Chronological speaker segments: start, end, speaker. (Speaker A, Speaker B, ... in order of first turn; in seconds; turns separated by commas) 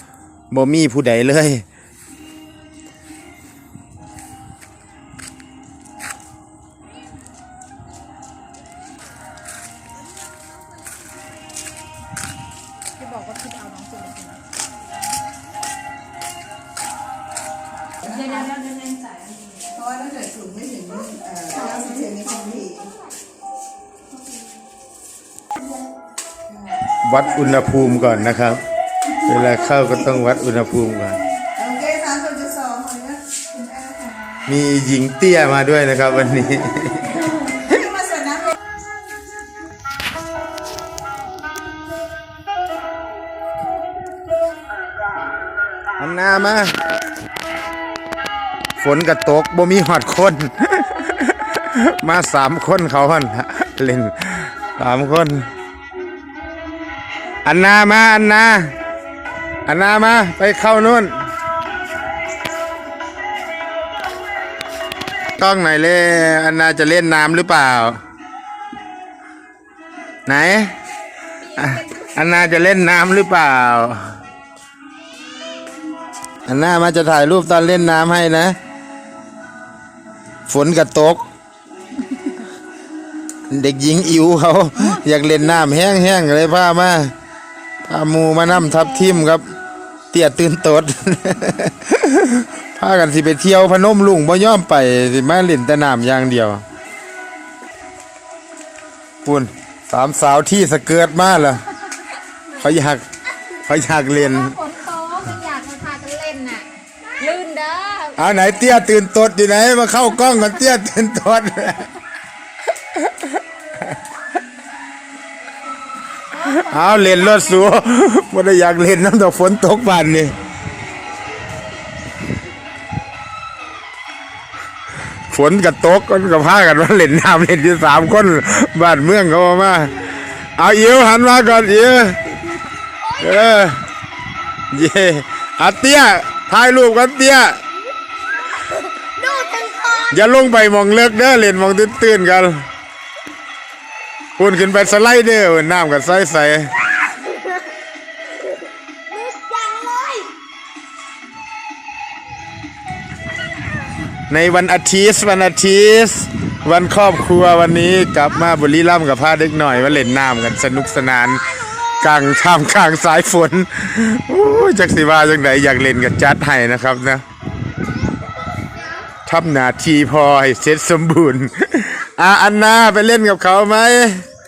Speaker A: 0.5-1.6, Speaker B: 13.0-14.4, Speaker B: 18.0-19.8, Speaker C: 19.8-22.9, Speaker A: 27.0-28.6, Speaker A: 29.1-31.2, Speaker C: 31.6-34.3, Speaker A: 34.5-37.2, Speaker C: 37.7-38.5, Speaker A: 46.0-46.8, Speaker A: 48.8-55.5, Speaker A: 57.4-58.7, Speaker A: 59.6-61.2, Speaker A: 65.4-68.0, Speaker A: 70.2-70.7, Speaker A: 71.5-74.0, Speaker A: 76.5-78.6, Speaker A: 80.5-81.2, Speaker A: 83.5-87.1, Speaker A: 87.8-89.5, Speaker A: 90.1-96.6, Speaker A: 99.2-101.6, Speaker A: 102.5-103.0, Speaker A: 103.6-104.6, Speaker B: 104.2-108.2, Speaker A: 108.2-111.9, Speaker B: 116.3-117.7, Speaker A: 116.4-120.4, Speaker A: 125.3-130.0, Speaker A: 130.6-132.3, Speaker B: 133.0-133.7, Speaker A: 133.2-133.8, Speaker A: 134.7-137.6, Speaker B: 139.2-140.2, Speaker A: 140.1-142.6, Speaker A: 144.4-146.7, Speaker B: 149.1-150.3, Speaker A: 154.3-167.2, Speaker A: 169.2-174.2